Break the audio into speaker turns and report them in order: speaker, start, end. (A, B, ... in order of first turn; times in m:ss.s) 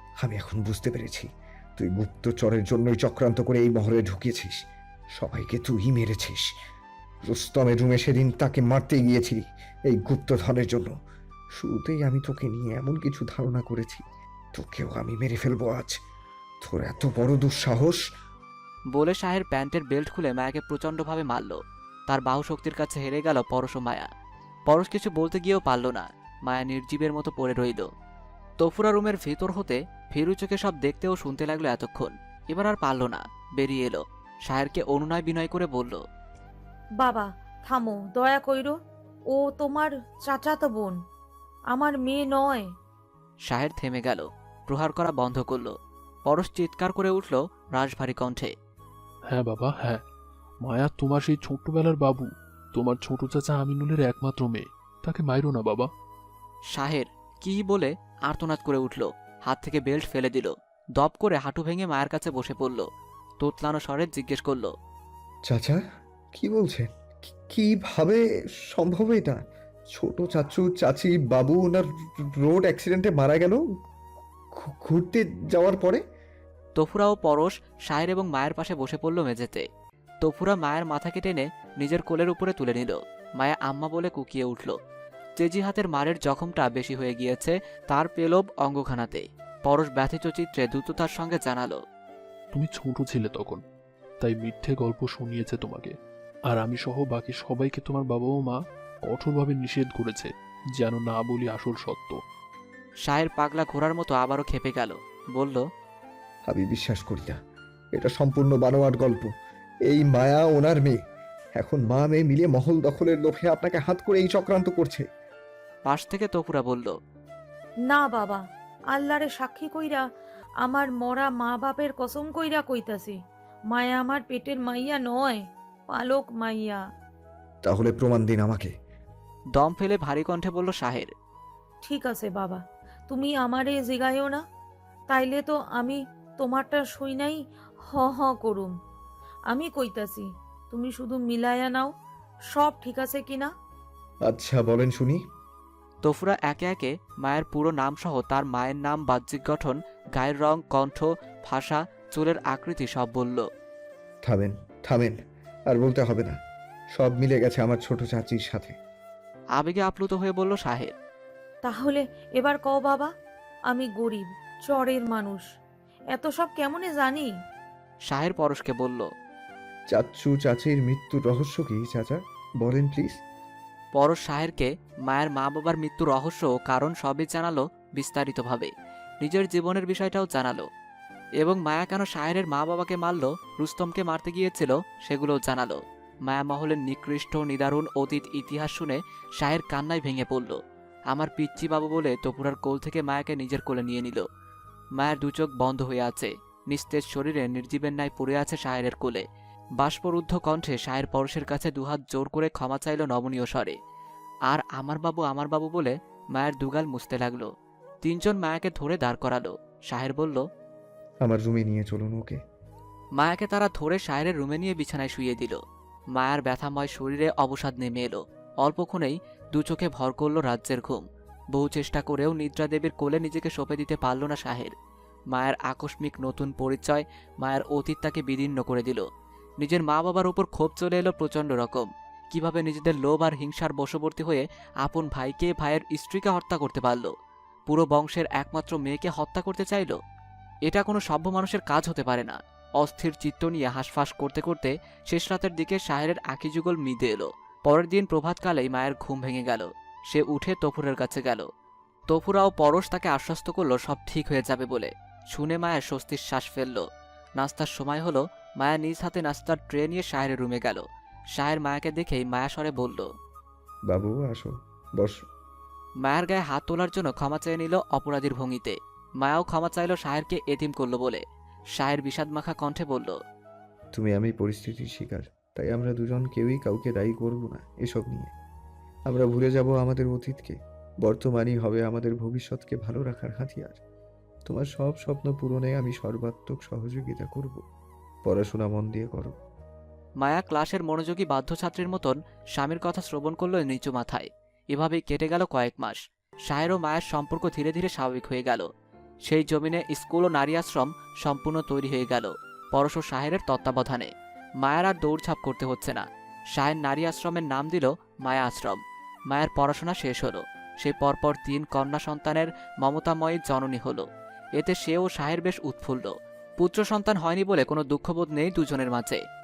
0:00.2-0:04.6 A
0:05.2-0:06.4 A
0:07.3-0:09.4 A
0:09.9-0:10.9 A
0:11.6-0:14.0 A
0:14.5-0:16.0 A
0:16.6-0:18.0 A
0:18.9-0:21.6 B
0:22.1-0:24.1 B
0:24.7-0:27.9 B
0:28.6-0:36.0 B
0:37.0-0:38.7 C
0:39.3-0:40.9 C
0:41.7-0:42.6 C
0:43.4-0:45.7 B
0:46.2-0:48.5 B
0:49.3-0:50.0 D
0:50.6-0:55.9 D
0:56.7-1:02.8 B
1:03.4-1:04.7 B
1:05.4-1:05.8 A
1:06.3-1:08.2 A
1:08.7-1:09.4 A
1:09.9-1:11.8 A
1:12.4-1:13.6 A
1:14.6-1:16.0 A
1:16.8-1:19.6 B
1:20.2-1:24.7 B
1:25.4-1:31.8 B
1:32.5-1:33.6 D
1:34.2-1:42.2 D
1:43.0-1:45.6 B
1:46.5-1:47.3 A
1:47.9-1:49.3 A
1:49.9-1:50.9 A
1:51.6-1:55.0 A
1:55.9-1:56.9 B
1:57.9-1:58.4 C
1:58.9-2:00.0 C
2:00.6-2:03.2 C
2:03.7-2:06.8 C
2:07.6-2:08.7 A
2:09.5-2:11.1 B
2:11.8-2:14.4 C
2:15.1-2:17.4 C
2:17.9-2:18.7 C
2:19.5-2:21.9 C
2:22.5-2:23.5 C
2:24.3-2:25.2 A
2:26.0-2:33.4 B
2:34.2-2:35.1 A
2:35.7-2:36.3 A
2:36.9-2:38.7 A
2:39.5-2:40.9 B
2:41.6-2:43.1 C
2:43.7-2:45.4 C
2:46.1-2:47.3 C
2:48.1-2:49.1 B
2:49.9-2:53.2 A
2:53.9-2:58.7 B
2:59.2-3:00.6 B
3:01.4-3:10.6 B
3:11.1-3:14.2 B
3:15.0-3:19.2 B
3:19.8-3:23.8 B
3:24.5-3:27.5 B
3:28.0-3:30.4 B
3:31.2-3:32.4 A
3:33.2-3:35.6 B
3:36.1-3:44.7 B
3:45.3-3:49.0 B
3:49.6-3:57.1 B
3:57.7-4:00.0 B
4:00.6-4:11.4 B
4:12.1-4:16.8 B
4:17.4-4:20.8 B
4:21.3-4:23.1 B
4:23.9-4:25.2 A
4:26.0-4:31.2 B
4:31.8-4:33.2 B
4:33.9-4:38.3 A
4:39.1-4:43.8 A
4:44.5-4:47.6 A
4:48.2-4:49.3 A
4:50.2-4:58.7 B
4:59.2-5:04.1 B
5:04.6-5:14.0 B
5:14.6-5:19.2 B